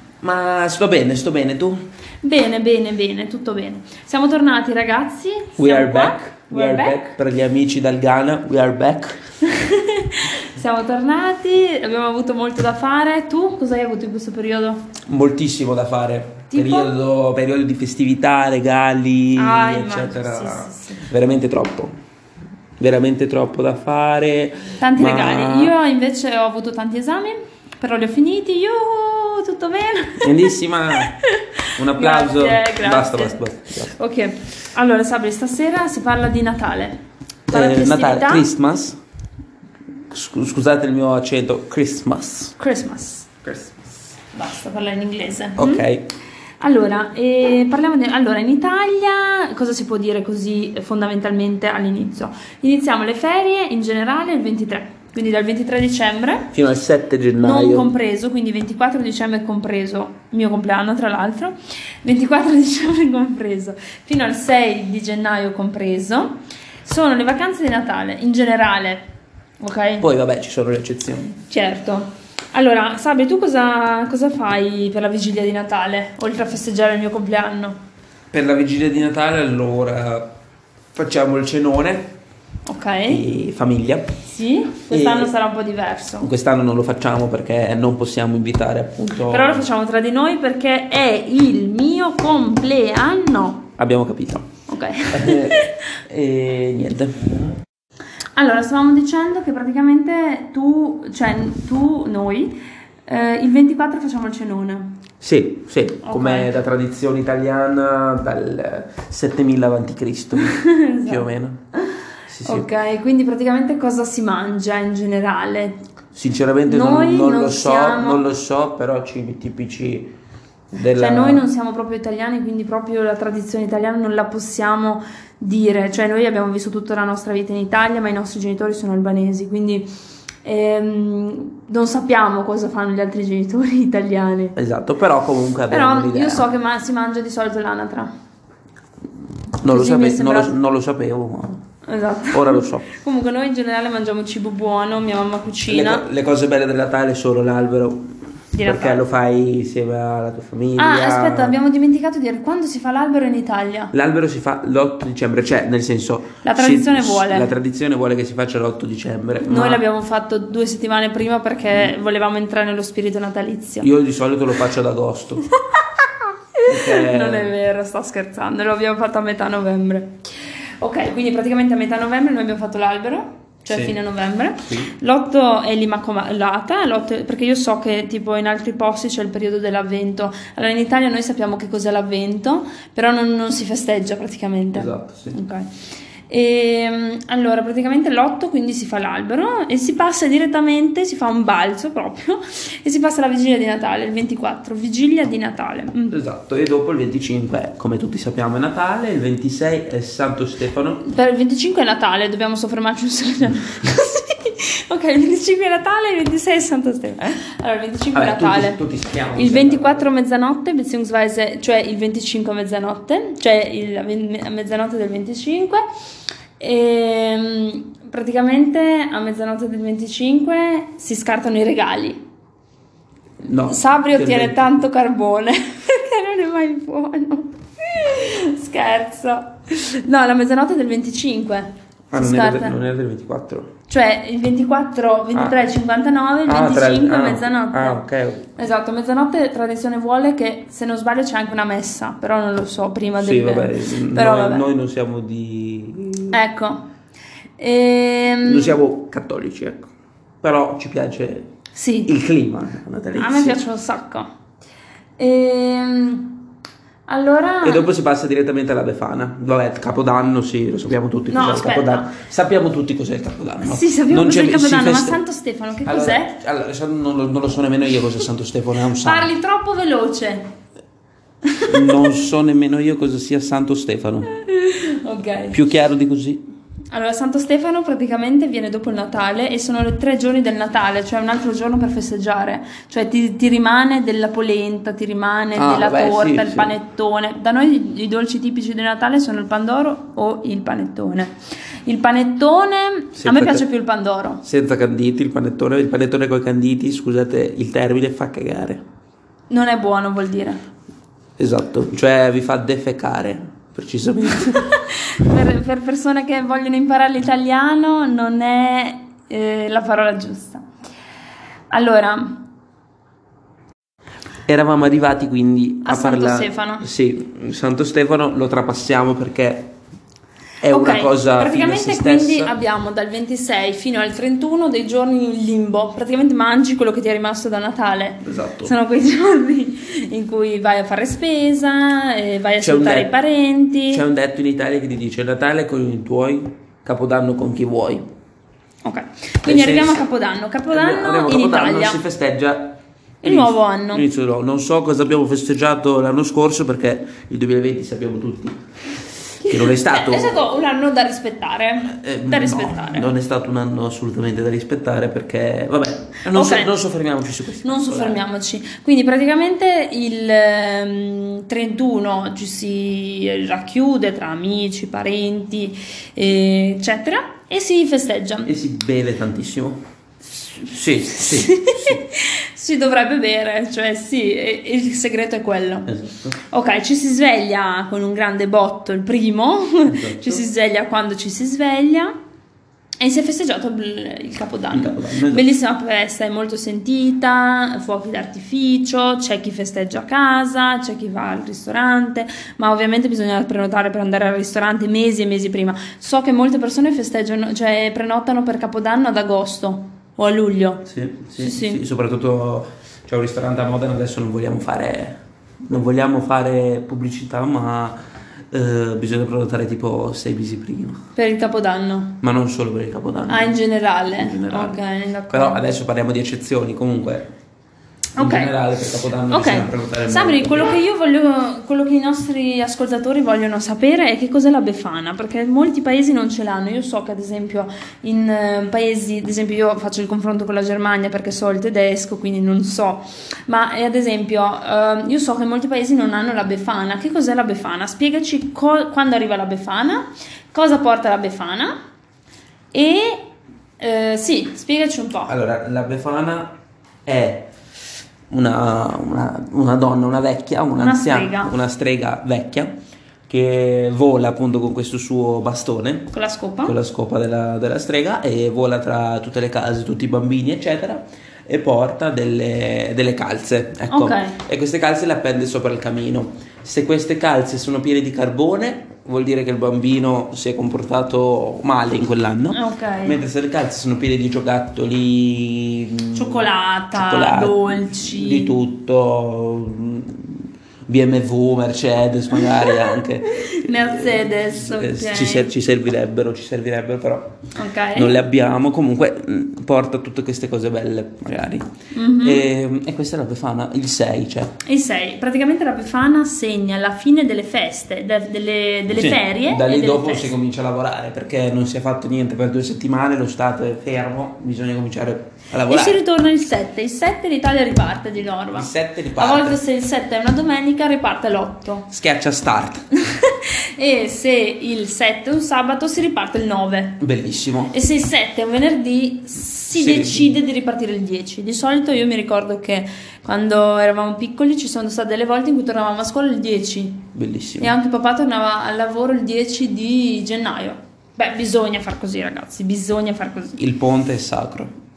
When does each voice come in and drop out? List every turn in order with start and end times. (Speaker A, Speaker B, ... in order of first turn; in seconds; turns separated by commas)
Speaker A: 0.2-1.8, Speaker B: 2.2-7.1, Speaker A: 5.6-9.2, Speaker B: 9.5-14.9, Speaker A: 15.1-21.9, Speaker B: 16.5-16.9, Speaker B: 19.4-21.1, Speaker A: 22.8-25.7, Speaker B: 24.8-37.0, Speaker A: 30.2-31.2, Speaker A: 31.8-34.0, Speaker A: 37.5-39.0, Speaker B: 37.5-38.5, Speaker A: 40.1-42.5, Speaker B: 42.6-43.4, Speaker A: 43.5-43.8, Speaker B: 44.3-45.9, Speaker A: 45.6-46.1, Speaker B: 46.6-56.5, Speaker A: 56.5-57.9, Speaker B: 57.4-69.0, Speaker B: 69.6-70.0, Speaker A: 70.0-71.4, Speaker B: 71.5-77.8, Speaker A: 78.3-80.3, Speaker A: 80.9-82.1, Speaker B: 82.7-83.3, Speaker A: 83.1-84.1, Speaker B: 84.2-86.3, Speaker A: 84.9-85.3, Speaker A: 86.2-89.7, Speaker B: 89.3-93.7, Speaker A: 93.8-94.5, Speaker B: 94.7-95.8, Speaker A: 95.1-97.3, Speaker B: 98.3-105.0, Speaker A: 105.2-111.6, Speaker B: 106.1-106.5, Speaker B: 110.4-111.3, Speaker A: 112.3-112.7, Speaker B: 112.5-115.8, Speaker A: 116.1-120.1, Speaker B: 116.7-118.2, Speaker A: 120.7-121.4, Speaker B: 120.9-129.9, Speaker B: 130.4-134.6, Speaker A: 134.6-136.5, Speaker B: 135.7-138.1, Speaker A: 139.6-141.6, Speaker B: 139.6-140.6, Speaker B: 141.8-146.1, Speaker A: 142.3-142.9, Speaker A: 145.7-148.1, Speaker B: 148.5-149.1, Speaker A: 148.6-151.6, Speaker B: 150.8-153.9, Speaker A: 153.9-159.8, Speaker B: 156.4-157.5, Speaker B: 159.5-163.9, Speaker A: 163.8-165.5, Speaker B: 166.6-170.2, Speaker A: 166.7-167.6, Speaker B: 170.8-185.7, Speaker A: 173.7-174.0, Speaker A: 174.7-174.9, Speaker A: 184.8-185.4, Speaker B: 186.3-196.2, Speaker A: 196.1-201.0, Speaker B: 201.0-208.8, Speaker A: 208.1-210.1, Speaker B: 209.3-215.8, Speaker B: 216.6-222.2, Speaker A: 223.4-224.7, Speaker B: 223.7-232.8, Speaker A: 232.1-233.7, Speaker B: 233.9-238.0, Speaker A: 235.3-235.7, Speaker A: 236.5-238.5, Speaker B: 238.6-244.7, Speaker A: 243.2-246.4, Speaker B: 246.3-246.8, Speaker B: 247.6-248.8, Speaker A: 248.4-249.9, Speaker A: 250.4-251.5, Speaker B: 251.7-252.1, Speaker A: 252.1-253.6, Speaker B: 253.2-254.3, Speaker B: 255.2-256.4, Speaker B: 257.1-257.9, Speaker A: 257.6-265.2, Speaker B: 261.3-262.1, Speaker B: 263.6-266.3, Speaker A: 265.9-269.3, Speaker B: 269.0-270.5, Speaker B: 271.5-272.1, Speaker A: 271.7-274.3, Speaker B: 274.3-275.6, Speaker A: 275.5-276.4, Speaker B: 276.9-291.3, Speaker A: 285.6-286.7, Speaker B: 291.9-294.4, Speaker A: 293.2-293.6, Speaker A: 294.4-298.8, Speaker B: 299.5-300.6, Speaker A: 301.4-304.8, Speaker B: 304.6-310.6, Speaker B: 311.7-312.4, Speaker A: 314.5-319.7, Speaker B: 315.9-316.9, Speaker A: 320.6-322.5, Speaker B: 320.7-334.0, Speaker A: 328.2-328.7, Speaker A: 332.6-333.1, Speaker A: 333.9-338.1, Speaker B: 338.8-342.0, Speaker A: 339.4-340.1, Speaker A: 340.7-348.6, Speaker B: 343.2-344.1, Speaker A: 349.4-350.6, Speaker B: 349.4-353.1, Speaker A: 351.9-358.2, Speaker B: 356.3-356.7, Speaker B: 357.6-368.5, Speaker A: 368.4-369.8, Speaker A: 370.6-372.0, Speaker B: 371.2-375.9, Speaker A: 375.9-376.4, Speaker B: 376.5-382.1, Speaker A: 379.9-380.4, Speaker B: 383.0-400.9, Speaker A: 384.7-385.5, Speaker A: 400.9-408.0, Speaker B: 401.4-401.8, Speaker A: 408.5-411.0, Speaker B: 411.2-412.2, Speaker A: 412.2-413.6, Speaker B: 413.3-415.6, Speaker A: 414.1-414.8, Speaker A: 415.3-417.3, Speaker B: 418.2-418.5, Speaker A: 418.2-420.7, Speaker B: 419.3-441.7, Speaker B: 442.7-443.2, Speaker B: 443.8-445.3, Speaker A: 445.3-446.5, Speaker A: 447.1-447.5, Speaker A: 448.3-452.7, Speaker B: 450.8-451.5, Speaker A: 453.3-456.1, Speaker B: 456.1-456.8, Speaker A: 456.6-487.4, Speaker B: 463.9-464.4, Speaker B: 472.5-473.2, Speaker B: 476.1-478.6, Speaker B: 483.3-485.5, Speaker B: 487.6-488.2, Speaker A: 487.9-491.6, Speaker B: 491.9-492.5, Speaker A: 492.2-494.6, Speaker B: 494.7-500.3, Speaker A: 498.9-506.0, Speaker B: 505.7-511.9, Speaker A: 508.5-509.6, Speaker A: 511.9-512.9, Speaker B: 513.0-517.0, Speaker A: 517.0-517.8, Speaker B: 517.7-527.1, Speaker A: 519.7-520.4, Speaker A: 527.1-527.8, Speaker B: 527.6-533.6, Speaker A: 533.6-534.7